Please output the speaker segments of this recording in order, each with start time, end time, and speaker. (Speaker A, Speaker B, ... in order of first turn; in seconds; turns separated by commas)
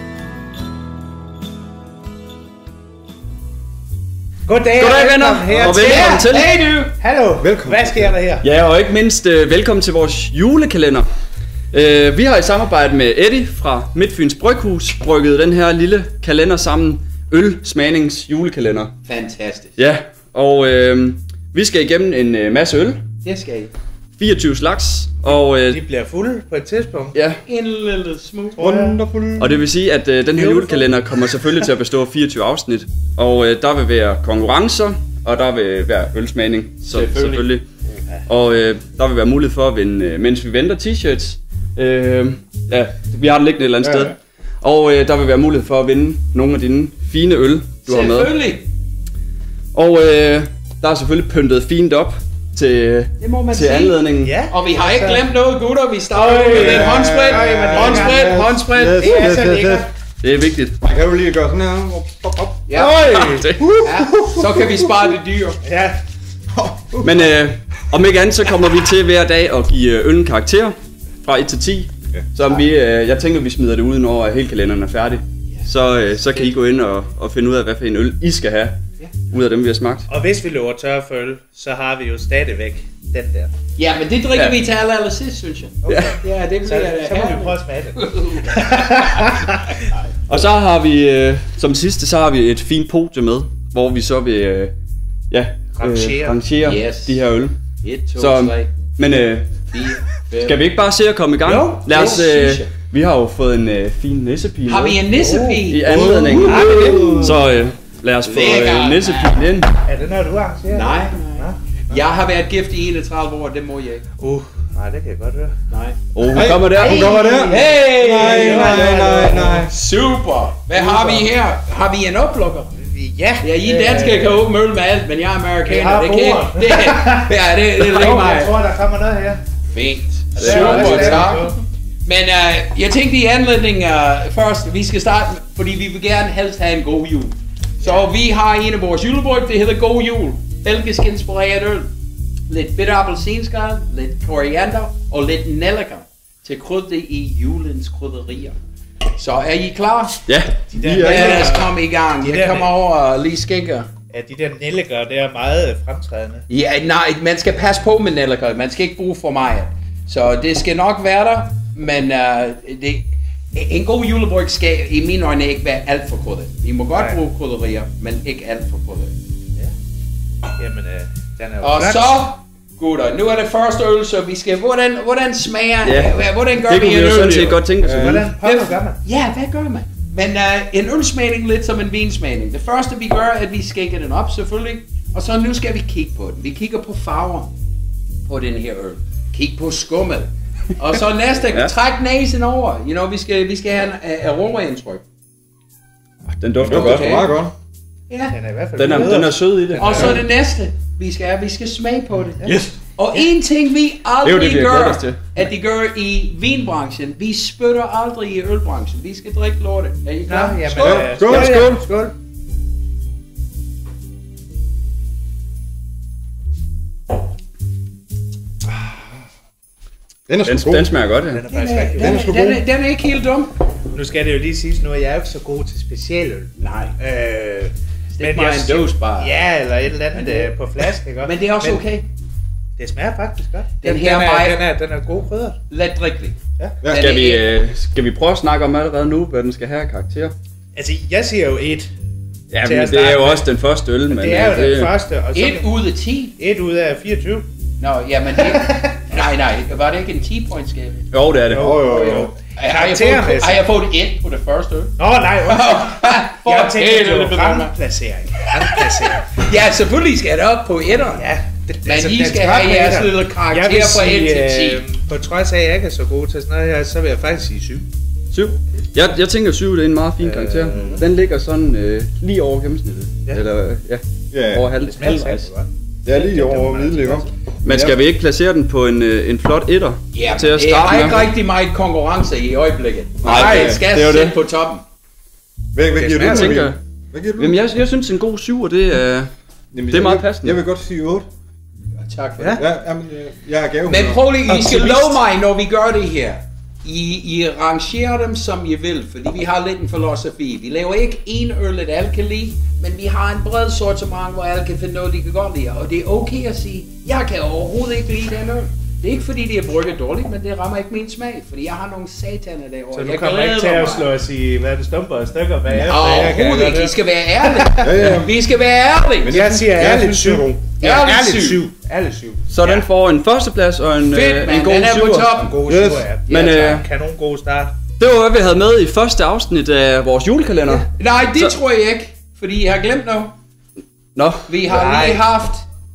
Speaker A: 4.5-6.3, Speaker B: 4.8-6.5, Speaker C: 5.6-6.9, Speaker A: 7.0-8.5, Speaker D: 7.4-8.1, Speaker B: 8.4-11.1, Speaker B: 11.7-18.9, Speaker C: 19.0-19.8, Speaker B: 19.8-23.0, Speaker C: 23.2-23.7, Speaker B: 24.2-25.8, Speaker A: 25.3-27.2, Speaker B: 27.1-27.4, Speaker C: 27.5-28.6, Speaker A: 28.6-29.0, Speaker D: 28.6-29.7, Speaker B: 29.4-37.6, Speaker A: 30.3-31.1, Speaker C: 36.8-37.5, Speaker A: 38.0-38.2, Speaker B: 38.3-48.3, Speaker D: 43.8-44.1, Speaker C: 47.9-48.7, Speaker B: 49.7-54.4, Speaker C: 53.2-59.3, Speaker A: 54.2-55.2, Speaker A: 56.1-58.4, Speaker D: 56.5-59.9, Speaker A: 58.9-59.9, Speaker B: 60.2-60.8, Speaker D: 60.8-62.6, Speaker C: 62.7-63.0, Speaker A: 62.8-64.6, Speaker B: 62.8-63.9, Speaker C: 63.8-65.6, Speaker A: 65.6-66.0, Speaker D: 66.5-67.3, Speaker B: 67.0-78.8, Speaker C: 76.2-76.5, Speaker B: 79.3-80.0, Speaker A: 80.1-83.5, Speaker C: 83.8-89.3, Speaker A: 85.8-89.6, Speaker B: 85.9-86.2, Speaker B: 90.3-94.7, Speaker B: 95.3-97.6, Speaker A: 95.7-96.4, Speaker C: 96.6-97.2, Speaker C: 97.8-98.8, Speaker B: 98.2-99.7, Speaker C: 99.7-100.6, Speaker B: 100.4-105.0, Speaker A: 101.4-102.2, Speaker C: 101.9-102.7, Speaker C: 104.7-105.9, Speaker A: 105.2-107.5, Speaker B: 105.7-109.7, Speaker D: 105.8-107.4, Speaker C: 108.3-109.4, Speaker A: 109.9-111.6, Speaker C: 110.7-114.0, Speaker A: 114.2-115.5, Speaker C: 115.7-116.0, Speaker B: 116.2-117.2, Speaker D: 116.3-119.7, Speaker C: 116.7-118.9, Speaker A: 117.2-119.7, Speaker C: 119.6-122.7, Speaker A: 120.8-121.3, Speaker A: 122.8-124.4, Speaker C: 123.4-128.5, Speaker A: 125.7-129.4, Speaker C: 129.7-141.9, Speaker A: 130.3-131.5, Speaker B: 130.4-131.3, Speaker C: 142.5-148.6, Speaker C: 149.2-150.2, Speaker B: 150.3-151.5, Speaker A: 150.7-152.7, Speaker C: 151.0-153.9, Speaker A: 154.1-156.4, Speaker C: 156.5-169.1, Speaker A: 166.9-167.2, Speaker A: 170.6-172.1, Speaker C: 171.6-177.6, Speaker B: 175.8-178.3, Speaker D: 177.8-178.2, Speaker A: 177.8-179.0, Speaker C: 178.4-187.5, Speaker C: 188.2-195.0, Speaker B: 196.3-197.3, Speaker D: 196.6-197.5, Speaker C: 196.7-197.3, Speaker C: 198.1-198.3, Speaker A: 198.3-200.2, Speaker B: 198.8-200.2, Speaker C: 199.8-211.0, Speaker B: 202.4-202.7, Speaker B: 204.2-205.2, Speaker A: 210.2-212.1, Speaker D: 210.8-211.7, Speaker B: 210.8-211.8, Speaker D: 220.3-220.9, Speaker B: 220.4-221.4, Speaker A: 221.3-222.2, Speaker C: 221.5-223.5, Speaker D: 222.0-222.6, Speaker A: 223.9-231.8, Speaker C: 226.6-227.0, Speaker C: 228.1-229.3, Speaker C: 230.1-230.5, Speaker C: 231.2-232.1, Speaker A: 232.8-235.6, Speaker C: 233.8-234.6, Speaker C: 235.7-237.4, Speaker B: 236.9-240.3, Speaker A: 240.8-241.9, Speaker B: 242.5-244.9, Speaker A: 242.6-243.4, Speaker A: 244.1-245.8, Speaker C: 245.3-246.4, Speaker A: 246.4-247.5, Speaker C: 247.8-251.1, Speaker A: 248.4-248.9, Speaker B: 251.1-251.8, Speaker A: 251.5-253.6, Speaker D: 251.5-252.3, Speaker C: 251.7-254.9, Speaker A: 255.0-259.2, Speaker C: 255.5-257.7, Speaker C: 258.6-261.2, Speaker A: 260.9-267.9, Speaker C: 261.8-264.8, Speaker B: 268.3-275.5, Speaker A: 270.2-271.0, Speaker D: 274.3-274.6, Speaker A: 274.8-277.3, Speaker D: 276.1-278.0, Speaker B: 277.6-281.3, Speaker C: 280.1-284.8, Speaker D: 283.2-283.8, Speaker B: 283.2-284.4, Speaker D: 285.7-287.6, Speaker A: 285.9-286.6, Speaker B: 286.1-286.8, Speaker B: 287.4-289.3, Speaker D: 289.7-291.3, Speaker B: 289.9-290.6, Speaker C: 292.0-292.6, Speaker D: 292.6-294.2, Speaker C: 293.9-314.1, Speaker A: 294.5-295.1, Speaker A: 312.9-318.0, Speaker C: 315.8-319.6, Speaker D: 317.8-318.3, Speaker D: 319.2-320.6, Speaker A: 319.2-322.5, Speaker C: 320.8-321.6, Speaker B: 322.5-325.4, Speaker C: 324.1-325.6, Speaker A: 325.4-327.8, Speaker D: 325.6-326.1, Speaker B: 326.3-326.9, Speaker B: 328.0-331.5, Speaker C: 330.9-333.3, Speaker B: 334.1-334.5, Speaker C: 334.5-335.6, Speaker A: 334.6-335.2